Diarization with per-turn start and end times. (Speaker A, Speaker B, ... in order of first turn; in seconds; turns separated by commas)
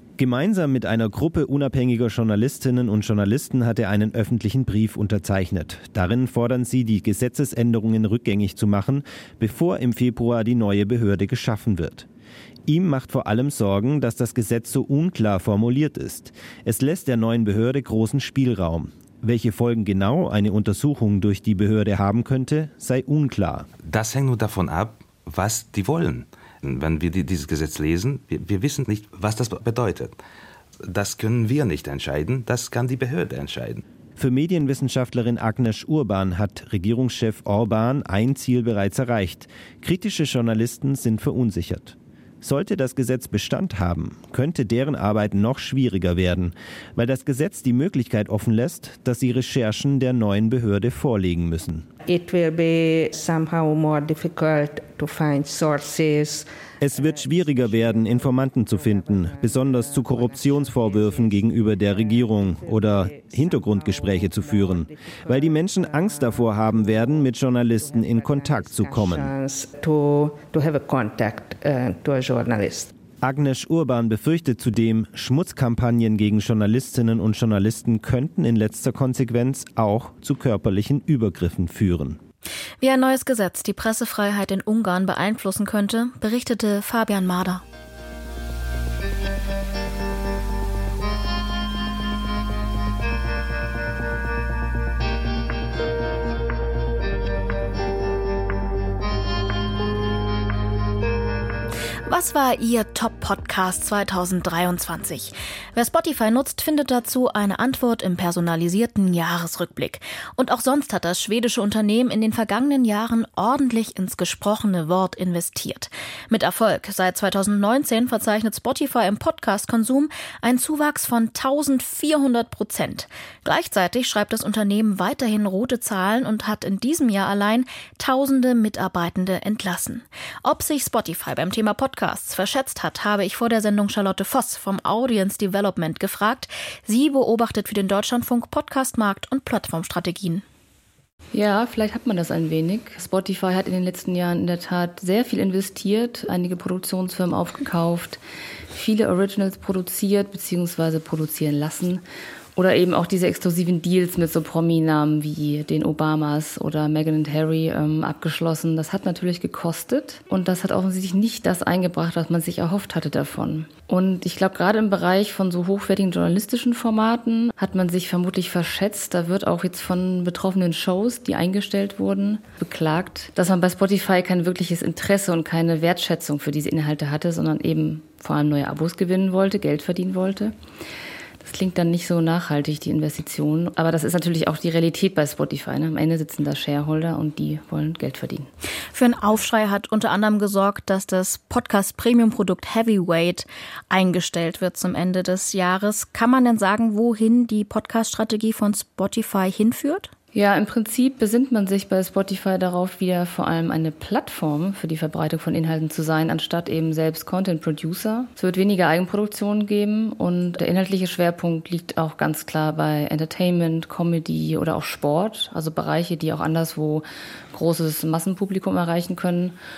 Speaker A: 0.2-12.1, Speaker A: 12.7-23.7, Speaker B: 23.8-30.2, Speaker B: 30.8-33.8, Speaker A: 34.1-51.9, Speaker C: 52.0-72.9, Speaker A: 56.8-69.3, Speaker A: 73.2-82.2, Speaker D: 82.8-87.6, Speaker D: 102.1-140.4, Speaker E: 141.3-148.2, Speaker E: 148.7-152.0, Speaker E: 152.6-180.5, Speaker E: 181.4-188.5, Speaker D: 188.9-200.1, Speaker E: 200.3-219.6